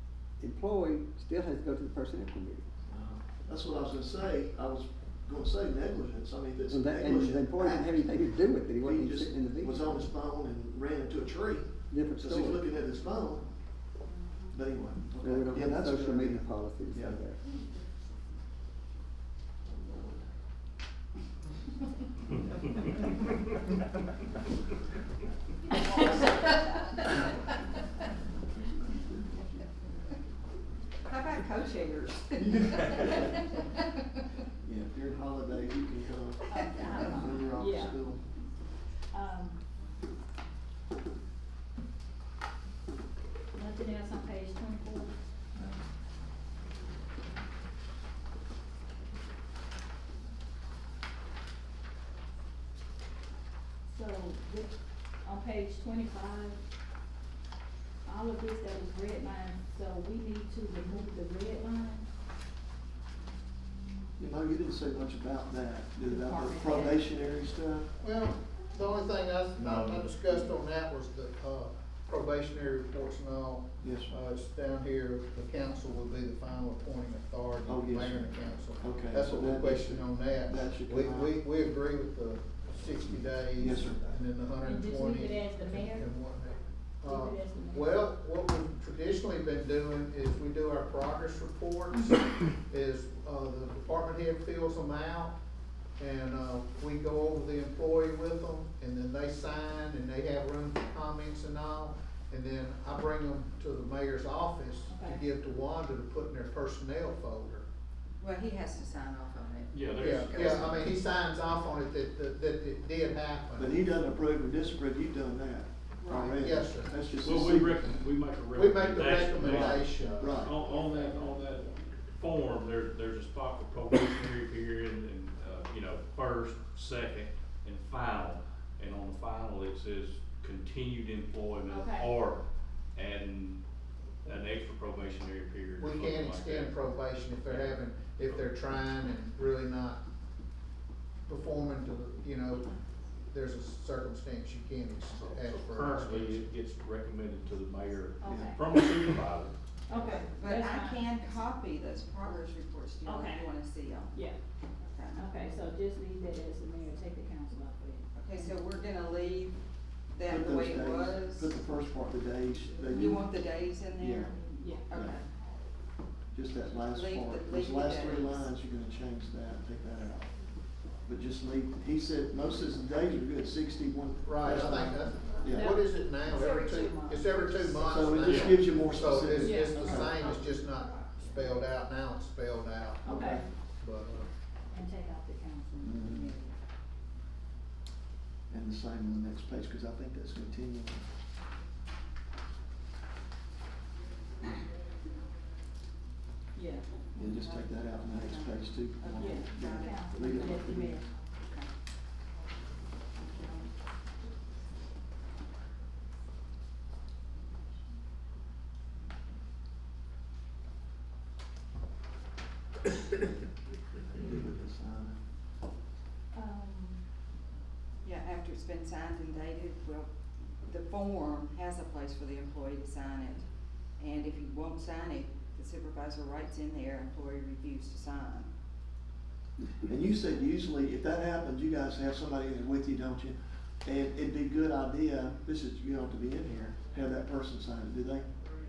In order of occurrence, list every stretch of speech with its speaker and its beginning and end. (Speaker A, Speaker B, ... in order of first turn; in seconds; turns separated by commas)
Speaker A: 0.4-2.6, Speaker B: 2.9-8.1, Speaker A: 6.7-10.0, Speaker B: 8.8-13.4, Speaker A: 11.9-12.7, Speaker B: 14.5-17.2, Speaker A: 15.2-17.4, Speaker B: 19.7-20.2, Speaker C: 26.0-26.4, Speaker C: 31.0-33.9, Speaker B: 32.4-33.4, Speaker B: 34.6-38.2, Speaker D: 36.5-38.0, Speaker C: 36.5-37.0, Speaker D: 39.1-39.6, Speaker D: 43.5-45.7, Speaker D: 53.9-54.7, Speaker D: 55.2-56.6, Speaker D: 58.0-62.0, Speaker B: 64.2-67.9, Speaker D: 66.0-67.0, Speaker E: 68.0-95.3, Speaker B: 73.8-74.1, Speaker B: 77.7-81.4, Speaker B: 83.6-84.0, Speaker D: 84.6-86.1, Speaker D: 87.0-87.9, Speaker E: 96.0-107.6, Speaker D: 104.9-105.2, Speaker C: 108.2-110.8, Speaker F: 109.7-110.8, Speaker E: 110.0-113.8, Speaker B: 113.6-117.8, Speaker C: 116.0-116.4, Speaker E: 116.3-116.9, Speaker F: 117.2-133.6, Speaker E: 118.5-120.3, Speaker B: 119.4-120.6, Speaker D: 131.7-132.2, Speaker F: 134.2-136.8, Speaker E: 135.8-140.0, Speaker F: 137.4-138.4, Speaker E: 141.2-142.7, Speaker E: 143.3-146.4, Speaker F: 145.1-150.2, Speaker D: 148.2-148.7, Speaker B: 148.2-148.9, Speaker D: 149.9-151.2, Speaker C: 150.2-154.2, Speaker D: 153.0-153.5, Speaker D: 154.1-154.4, Speaker C: 154.8-155.3, Speaker D: 155.1-158.7, Speaker C: 158.1-159.6, Speaker C: 160.1-161.6, Speaker B: 160.2-163.2, Speaker C: 162.9-165.2, Speaker B: 164.0-164.3, Speaker D: 164.3-164.9, Speaker B: 166.3-170.3, Speaker C: 166.8-168.5, Speaker B: 171.1-175.7, Speaker E: 174.2-183.0, Speaker D: 175.5-176.7, Speaker C: 176.3-178.2, Speaker B: 177.8-180.2, Speaker F: 178.2-178.6, Speaker D: 179.3-180.0, Speaker C: 179.9-181.1, Speaker D: 183.0-183.5, Speaker B: 183.0-183.4, Speaker E: 183.8-184.3, Speaker D: 184.7-186.6, Speaker B: 185.8-186.3, Speaker B: 188.5-191.1, Speaker D: 196.5-196.9, Speaker B: 197.1-201.0, Speaker C: 197.2-200.7, Speaker D: 199.2-201.7, Speaker C: 203.2-203.7, Speaker B: 214.1-215.2, Speaker D: 216.3-217.0, Speaker C: 218.0-220.1, Speaker C: 220.6-223.4, Speaker C: 224.0-228.5, Speaker B: 229.8-238.2